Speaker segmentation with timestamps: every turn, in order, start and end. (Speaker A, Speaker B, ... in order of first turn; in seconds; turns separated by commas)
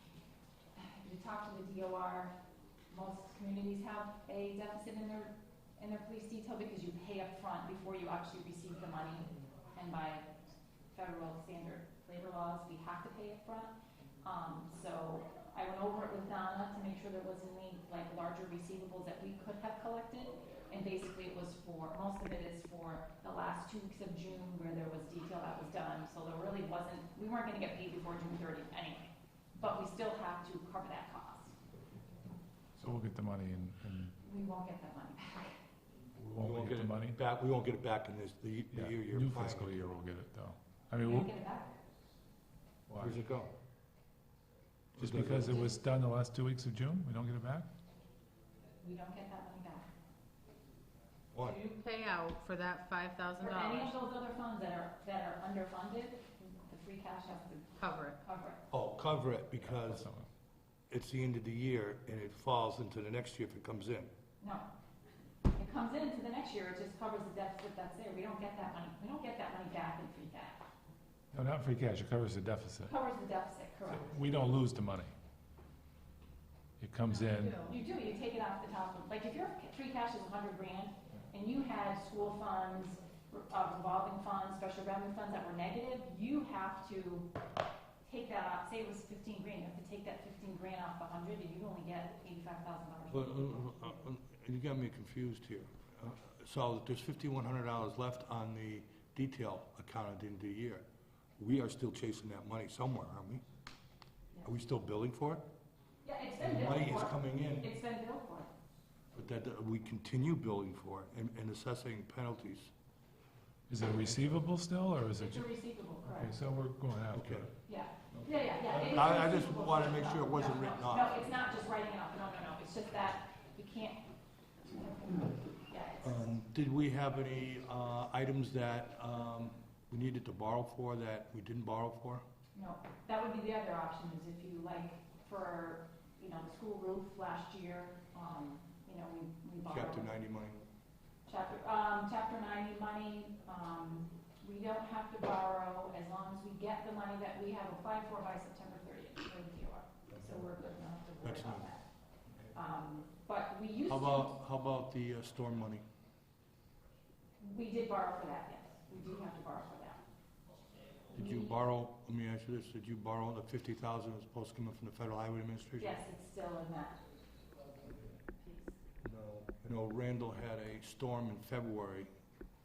Speaker A: 0.8-2.4, Speaker A: 2.9-10.3, Speaker A: 10.9-31.6, Speaker B: 32.8-34.1, Speaker A: 34.2-35.6, Speaker B: 36.2-37.2, Speaker C: 36.3-39.8, Speaker B: 38.7-41.3, Speaker A: 41.0-41.7, Speaker B: 42.9-43.2, Speaker C: 43.0-43.5, Speaker C: 45.0-45.6, Speaker B: 45.0-47.7, Speaker A: 45.5-45.8, Speaker A: 48.8-49.9, Speaker C: 51.3-51.6, Speaker D: 51.4-54.0, Speaker A: 53.4-58.6, Speaker D: 57.8-58.2, Speaker C: 58.7-60.1, Speaker B: 59.7-60.3, Speaker C: 60.9-64.1, Speaker A: 64.4-64.7, Speaker A: 65.6-70.7, Speaker B: 71.3-72.9, Speaker A: 72.9-74.2, Speaker B: 74.0-75.1, Speaker B: 76.8-77.6, Speaker D: 77.1-77.7, Speaker A: 77.6-87.3, Speaker A: 88.0-93.9, Speaker C: 93.1-100.8, Speaker C: 101.4-103.4, Speaker C: 104.4-105.4, Speaker A: 106.0-108.5, Speaker C: 106.4-107.7, Speaker C: 109.1-112.7, Speaker B: 113.7-115.5, Speaker A: 115.2-116.3, Speaker B: 116.0-117.5, Speaker C: 117.1-117.5, Speaker A: 117.7-124.0, Speaker C: 118.1-121.2, Speaker A: 124.7-126.3, Speaker C: 126.0-132.2, Speaker A: 132.6-140.1, Speaker C: 139.7-140.7, Speaker A: 141.3-151.8, Speaker C: 150.1-150.5, Speaker C: 151.2-151.7, Speaker A: 152.5-154.4, Speaker C: 153.9-155.8, Speaker A: 157.4-160.0, Speaker A: 161.1-161.6, Speaker C: 161.1-165.9, Speaker A: 165.8-167.0, Speaker A: 168.4-168.8, Speaker C: 169.0-172.1